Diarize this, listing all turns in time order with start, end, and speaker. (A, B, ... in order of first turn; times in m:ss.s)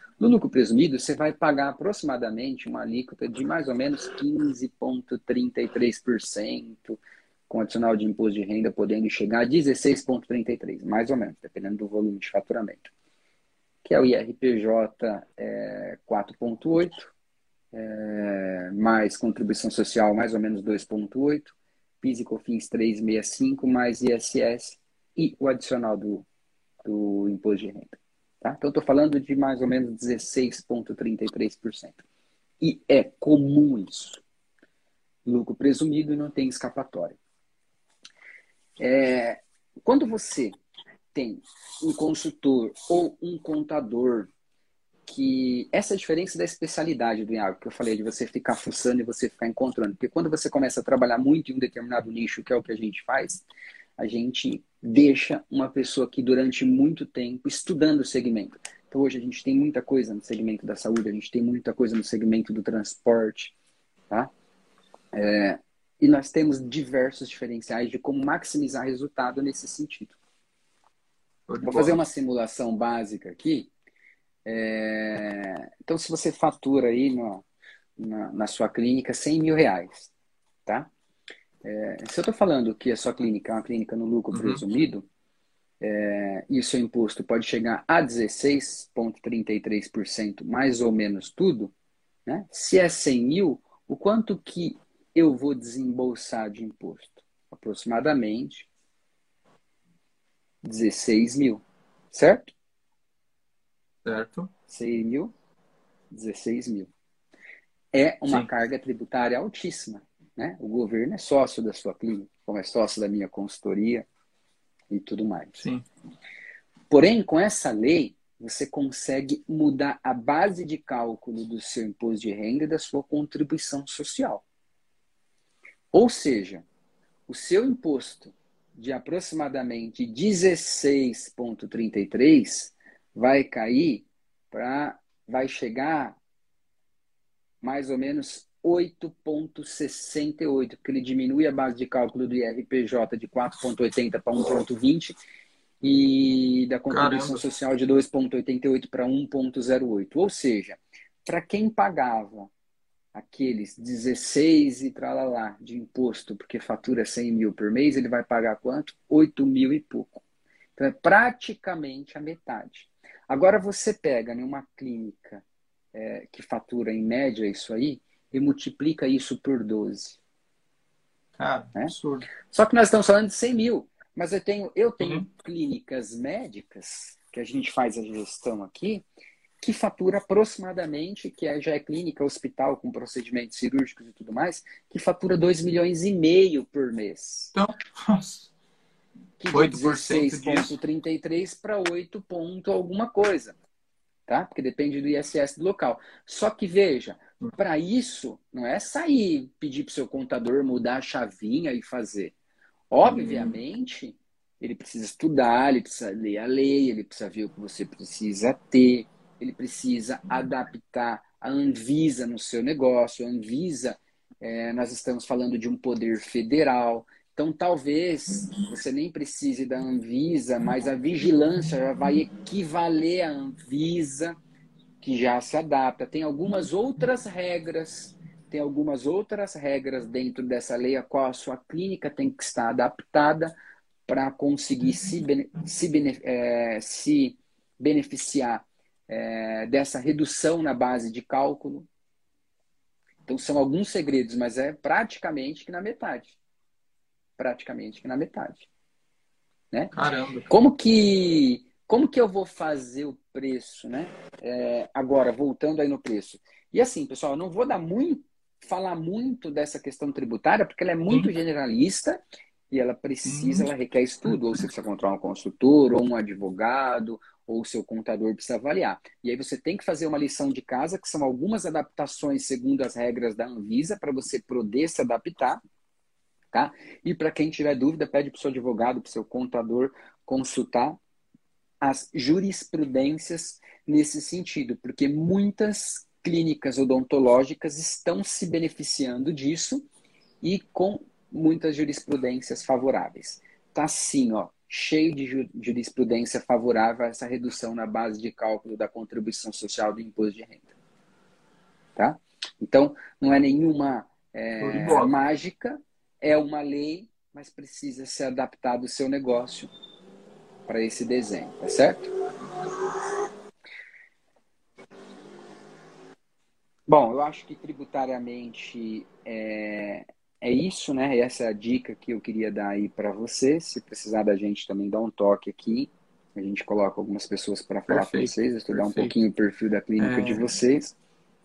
0:00.2-0:12.9 A
0:13.8-0:17.1 A
0:17.7-0:26.3 A
0:26.8-0:32.0 A
0:32.6-0:34.2 A
0:35.3-0:37.2 A
0:38.8-0:40.6 A
0:41.1-0:44.3 A
0:45.1-0:53.4 A
0:54.0-1:03.5 A
1:05.1-1:10.2 A
1:11.5-1:12.0 B
1:11.6-1:13.7 A
1:14.5-1:17.4 A
1:18.0-1:20.1 A
1:20.7-1:20.9 A
1:21.6-1:25.1 A
1:24.3-1:24.6 B
1:25.8-1:31.7 A
1:32.3-1:38.7 A
1:40.6-1:42.5 A
1:44.0-1:44.5 B
1:44.7-1:45.3 A
1:46.1-1:46.9 A
1:47.9-1:54.1 A
1:54.9-1:55.6 A
1:55.6-1:55.8 B
1:56.9-2:04.4 A
2:05.9-2:06.6 A
2:07.3-2:16.2 A
2:17.6-2:25.2 A
2:25.8-2:32.5 A
2:26.9-2:27.4 B
2:33.1-2:40.2 A
2:40.8-2:45.4 A
2:45.9-2:50.2 A
2:51.4-2:52.3 B
2:52.5-2:59.0 A
2:59.6-3:07.5 A
3:07.5-3:08.5 B
3:09.4-3:13.6 A
3:09.5-3:10.7 B
3:14.3-3:22.3 A
3:22.9-3:44.4 A
3:23.0-3:23.6 B
3:45.0-3:53.5 A
3:54.1-4:01.9 A
4:03.3-4:06.4 A
4:07.4-4:08.7 A
4:09.9-4:10.5 B
4:10.5-4:35.6 A
4:23.3-4:23.7 B
4:36.5-4:41.0 A
4:41.8-4:49.9 A
4:50.4-5:00.7 A
5:02.0-5:09.7 A
5:04.6-5:05.2 B
5:10.7-5:12.1 A
5:16.9-5:31.0 A
5:27.9-5:29.1 B
5:30.0-5:30.5 B